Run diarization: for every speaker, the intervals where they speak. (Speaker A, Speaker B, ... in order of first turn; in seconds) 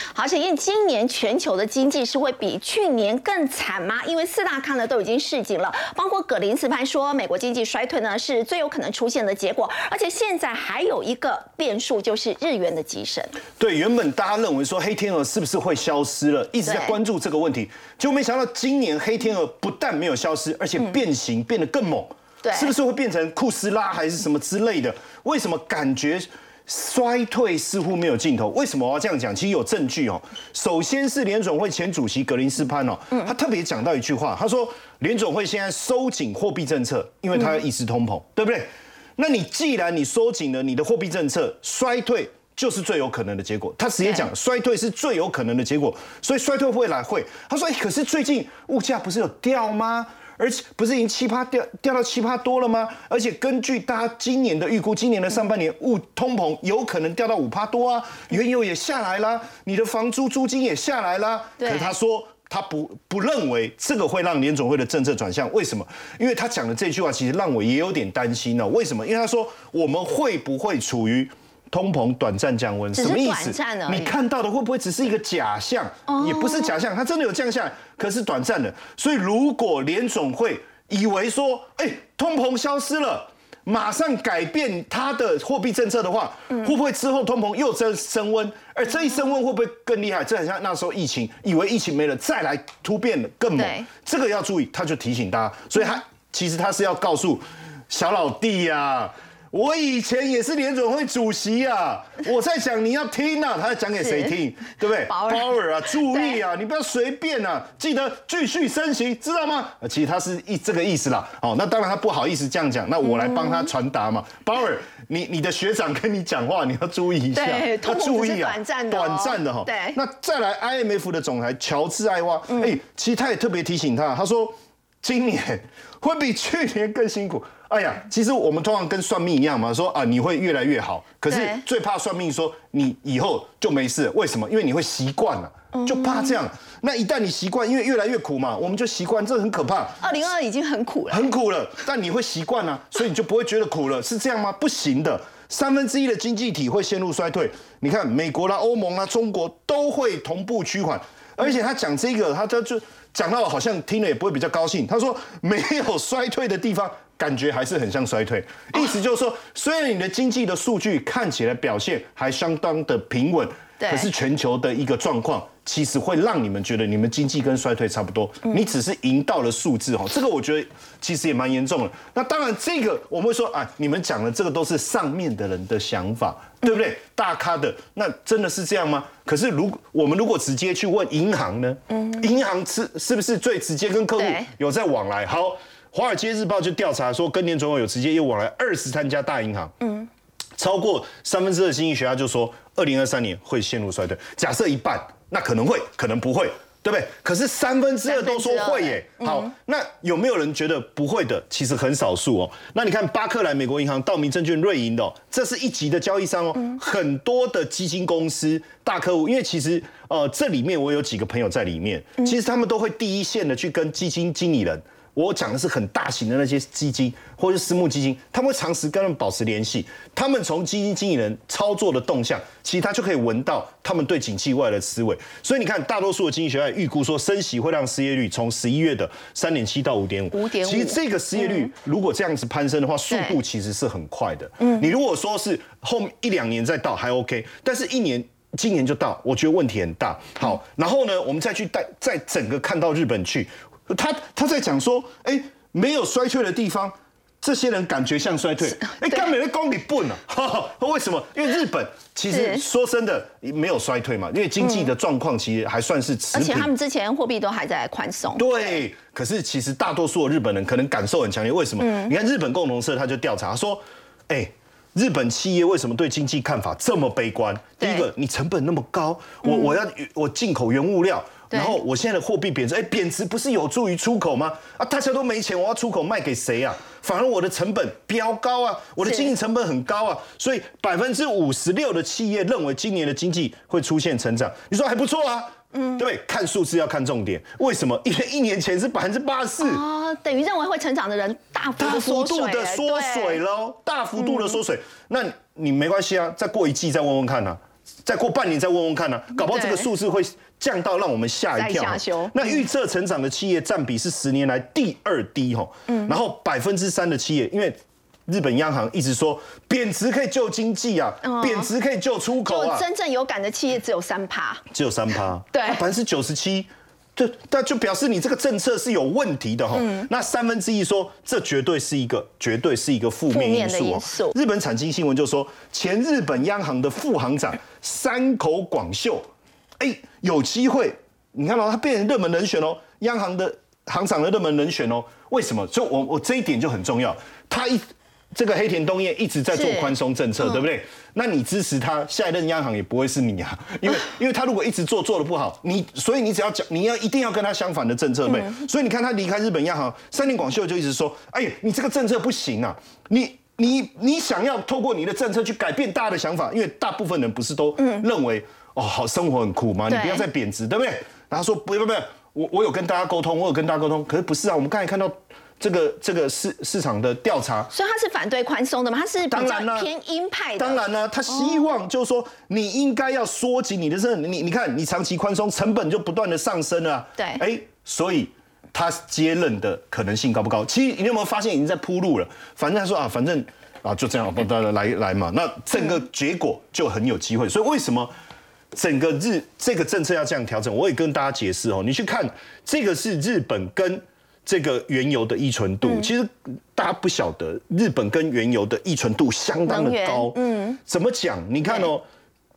Speaker A: 0.1-13.4, 16.6-17.0, 22.4-22.7, 44.0-44.3, 61.6-61.9, 72.9-74.1, 76.1-76.7, 93.6-93.9, 104.0-104.3, 105.0-105.5, 106.1-106.4, 113.1-113.7, 117.3-120.0, 122.5-122.8, 131.3-131.6, 135.7-136.4, 140.0-141.3, 163.8-164.1, 181.9-182.2, 184.2-184.5, 189.8-190.1, 198.1-199.5, 230.3-231.7, 233.1-233.4, 234.6-234.9, 248.8-249.3, 252.3-252.6, 254.6-254.9, 256.3-258.8, 261.8-262.1, 267.8-268.1, 269.4-269.8, 271.5-271.8, 279.0-279.3, 285.7-286.0, 289.6-293.4, 294.2-294.6, 299.4-299.9, 301.6-302.6, 305.9-306.2, 311.2-311.7, 312.5-314.6, 315.5-315.8, 319.7-320.1, 323.3-324.4, 339.5-339.9, 348.3-348.6, 357.8-358.1, 359.9-360.3, 367.7-371.7, 377.2-377.4, 399.7-400.8
Speaker B: 13.6-140.1, 141.1-189.7, 190.6-256.7, 258.4-289.8, 291.8-312.9, 314.7-329.3, 329.8-337.8, 338.3-367.7, 369.3-369.9, 370.6-388.1, 388.7-402.0